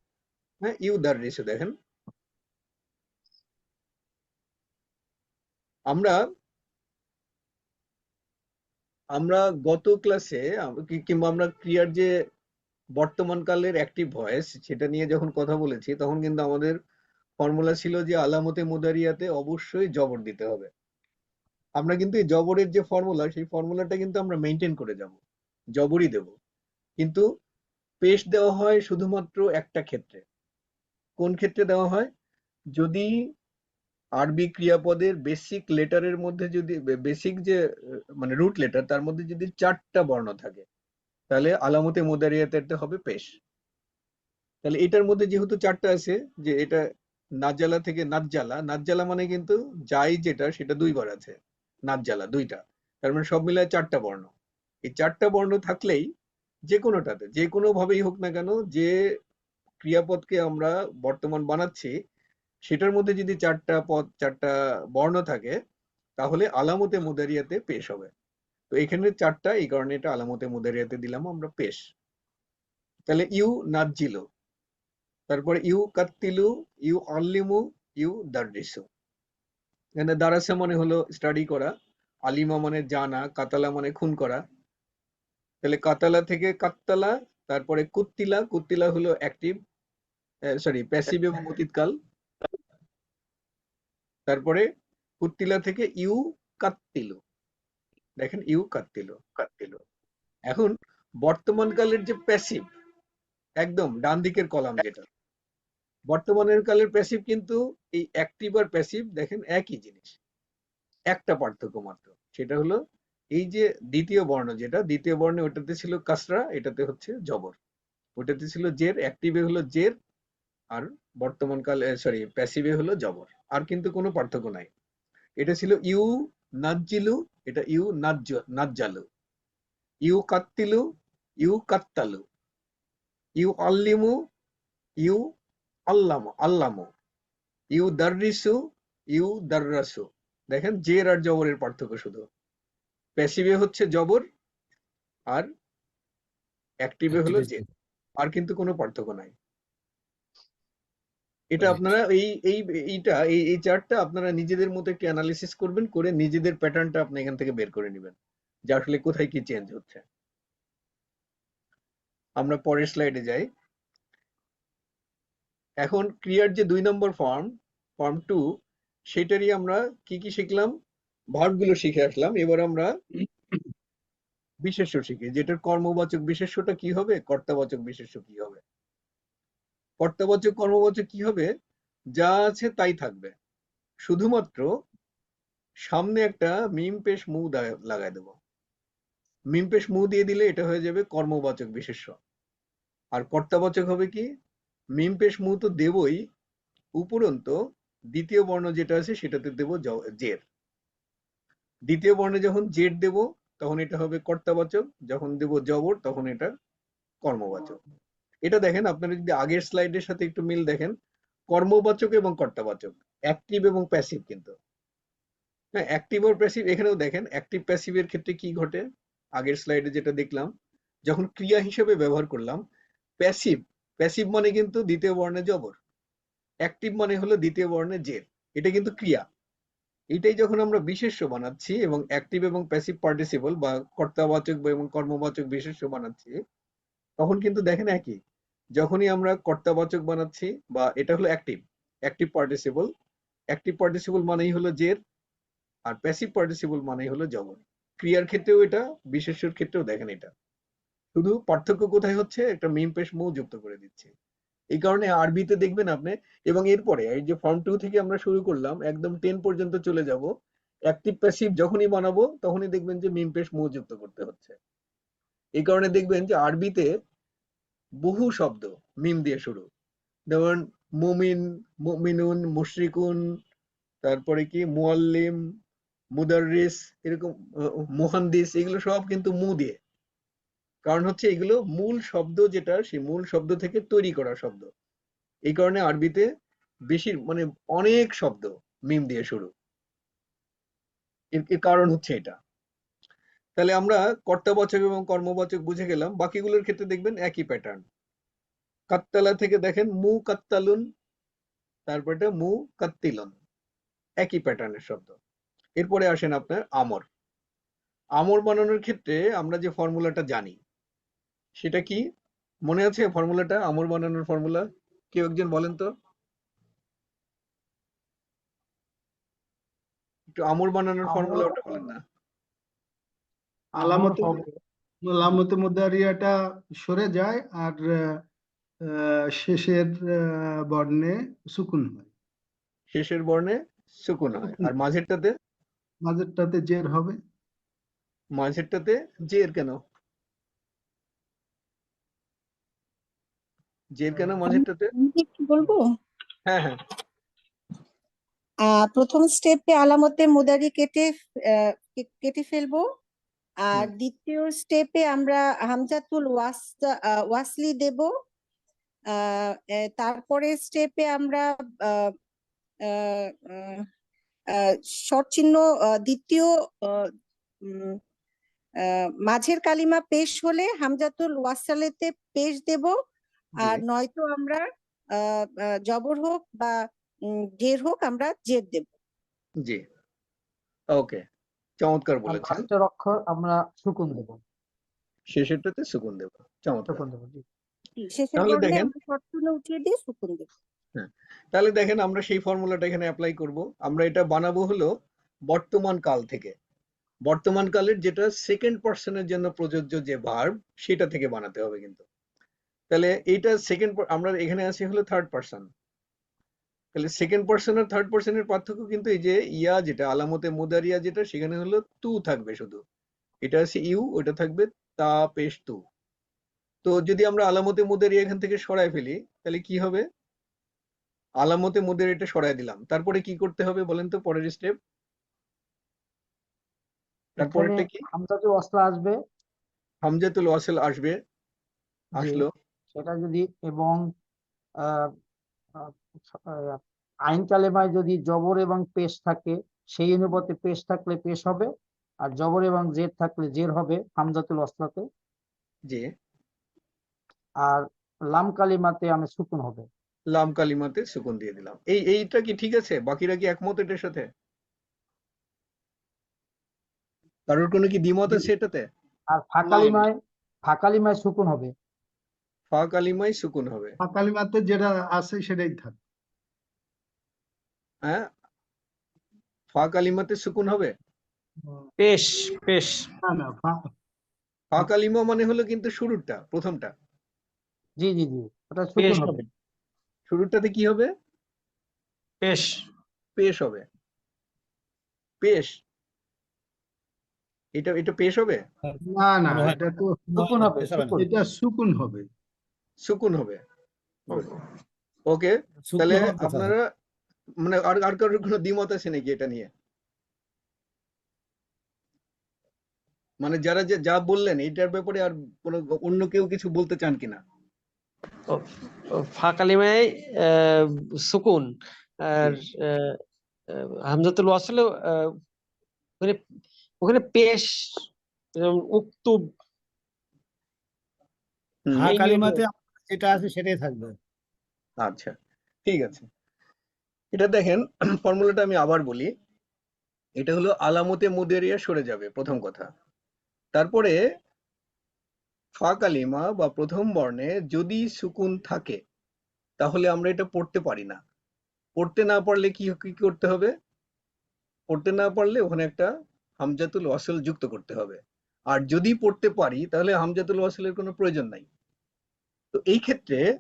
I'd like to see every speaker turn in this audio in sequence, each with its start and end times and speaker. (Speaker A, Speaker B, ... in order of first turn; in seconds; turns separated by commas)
Speaker A: 0.6-1.7, Speaker A: 5.9-6.2, Speaker A: 9.1-12.1, Speaker A: 12.9-16.8, Speaker A: 17.4-20.7, Speaker A: 21.8-25.2, Speaker A: 25.7-26.3, Speaker A: 28.0-30.2, Speaker A: 31.2-32.1, Speaker A: 32.7-33.1, Speaker A: 34.2-37.6, Speaker A: 38.2-40.6, Speaker A: 41.3-43.3, Speaker A: 44.6-46.8, Speaker A: 47.4-54.3, Speaker A: 54.8-56.0, Speaker A: 56.7-58.9, Speaker A: 59.8-61.9, Speaker A: 62.6-65.6, Speaker A: 66.2-68.1, Speaker A: 68.7-71.8, Speaker A: 73.1-74.2, Speaker A: 75.3-78.8, Speaker A: 80.0-81.7, Speaker A: 82.3-84.4, Speaker A: 85.6-89.6, Speaker A: 90.5-91.9, Speaker A: 94.3-94.7, Speaker A: 95.2-97.2, Speaker A: 98.2-99.8, Speaker A: 100.5-102.7, Speaker A: 103.6-105.1, Speaker A: 106.1-110.2, Speaker A: 111.1-112.8, Speaker A: 113.3-117.5, Speaker A: 118.2-119.9, Speaker A: 120.7-124.7, Speaker A: 125.4-126.1, Speaker A: 126.6-129.1, Speaker A: 130.0-130.8, Speaker A: 131.4-132.2, Speaker A: 133.4-134.1, Speaker A: 135.9-136.9, Speaker A: 137.7-138.5, Speaker A: 139.1-142.2, Speaker A: 143.2-144.2, Speaker A: 146.8-147.6, Speaker B: 147.1-147.7, Speaker A: 148.2-149.3, Speaker A: 151.5-158.2, Speaker B: 151.6-151.9, Speaker A: 158.7-160.0, Speaker A: 162.4-163.4, Speaker A: 165.8-168.4, Speaker A: 169.1-170.7, Speaker A: 171.3-172.9, Speaker A: 174.6-178.6, Speaker A: 180.0-181.5, Speaker A: 182.1-183.3, Speaker A: 184.0-184.7, Speaker A: 185.8-188.3, Speaker A: 189.5-192.2, Speaker A: 193.1-194.3, Speaker A: 194.9-196.2, Speaker A: 197.0-197.6, Speaker A: 198.1-200.4, Speaker A: 201.9-206.5, Speaker A: 207.2-207.8, Speaker A: 208.4-210.9, Speaker A: 211.5-214.5, Speaker A: 215.7-218.8, Speaker A: 219.4-220.5, Speaker A: 221.1-222.6, Speaker A: 223.2-225.8, Speaker A: 226.6-229.2, Speaker A: 230.1-236.3, Speaker A: 237.2-238.2, Speaker A: 238.8-242.9, Speaker A: 243.5-245.0, Speaker A: 245.9-250.3, Speaker A: 251.1-254.1, Speaker A: 254.7-260.3, Speaker A: 260.9-264.6, Speaker A: 265.6-266.9, Speaker A: 268.0-269.6, Speaker A: 270.3-273.2, Speaker A: 274.0-275.4, Speaker A: 276.1-277.3, Speaker A: 277.9-279.8, Speaker A: 280.8-284.7, Speaker A: 285.5-286.2, Speaker A: 286.9-289.5, Speaker A: 291.3-292.4, Speaker A: 293.6-297.8, Speaker A: 298.9-300.8, Speaker A: 301.9-303.4, Speaker A: 304.2-305.1, Speaker A: 305.8-307.1, Speaker A: 308.2-310.6, Speaker A: 311.6-312.0, Speaker A: 312.6-315.9, Speaker A: 320.3-322.0, Speaker C: 321.1-321.8, Speaker C: 323.8-324.5, Speaker D: 323.8-324.4, Speaker D: 325.0-328.2, Speaker D: 328.9-332.1, Speaker A: 332.9-335.3, Speaker D: 336.0-337.2, Speaker A: 338.3-339.8, Speaker A: 343.9-344.9, Speaker E: 344.4-345.9, Speaker A: 346.4-346.8, Speaker E: 348.7-352.8, Speaker E: 353.6-358.1, Speaker E: 359.1-362.1, Speaker E: 362.9-363.8, Speaker E: 364.5-367.1, Speaker E: 367.6-368.0, Speaker E: 368.8-372.9, Speaker E: 373.6-376.8, Speaker E: 377.3-378.9, Speaker A: 380.9-381.2, Speaker A: 381.8-382.6, Speaker C: 382.2-384.4, Speaker A: 385.3-387.0, Speaker C: 386.9-387.4, Speaker E: 388.0-390.5, Speaker A: 388.4-388.9, Speaker A: 390.9-394.9, Speaker A: 395.5-396.5, Speaker A: 397.2-402.0, Speaker A: 402.9-405.7, Speaker A: 406.9-412.8, Speaker A: 413.4-415.8, Speaker A: 416.8-420.0, Speaker A: 421.4-424.7, Speaker C: 427.4-429.1, Speaker A: 427.4-428.0, Speaker A: 430.0-431.1, Speaker A: 432.1-432.5, Speaker C: 432.1-434.0, Speaker C: 434.8-435.1, Speaker C: 435.7-441.7, Speaker C: 442.2-445.1, Speaker C: 447.6-449.9, Speaker A: 450.3-454.3, Speaker A: 457.5-458.9, Speaker C: 459.3-461.7, Speaker D: 459.7-460.0, Speaker A: 462.7-464.0, Speaker D: 464.0-466.0, Speaker A: 468.0-468.3, Speaker A: 469.7-470.9, Speaker F: 472.0-473.1, Speaker D: 473.2-473.9, Speaker A: 474.7-476.9, Speaker C: 478.0-479.4, Speaker F: 479.0-479.4, Speaker A: 480.3-481.1, Speaker F: 482.4-482.8, Speaker A: 483.4-483.9, Speaker A: 485.4-485.7, Speaker A: 487.7-488.6, Speaker D: 489.0-492.3, Speaker B: 489.5-489.8, Speaker B: 490.4-491.2, Speaker C: 490.4-491.2, Speaker A: 493.0-493.6, Speaker A: 495.3-496.8, Speaker B: 495.9-496.7, Speaker A: 497.6-499.7, Speaker A: 503.4-507.4, Speaker F: 508.5-513.2, Speaker F: 513.7-515.4, Speaker F: 517.0-519.5, Speaker A: 521.9-522.2, Speaker B: 521.9-524.1, Speaker F: 522.1-522.6, Speaker A: 525.0-526.3, Speaker A: 527.3-529.3, Speaker A: 530.4-532.9, Speaker A: 533.7-534.2, Speaker A: 535.8-539.0, Speaker A: 539.8-541.2, Speaker A: 542.0-543.7, Speaker A: 544.9-546.1, Speaker A: 546.6-548.2, Speaker A: 548.7-551.7, Speaker A: 552.7-553.4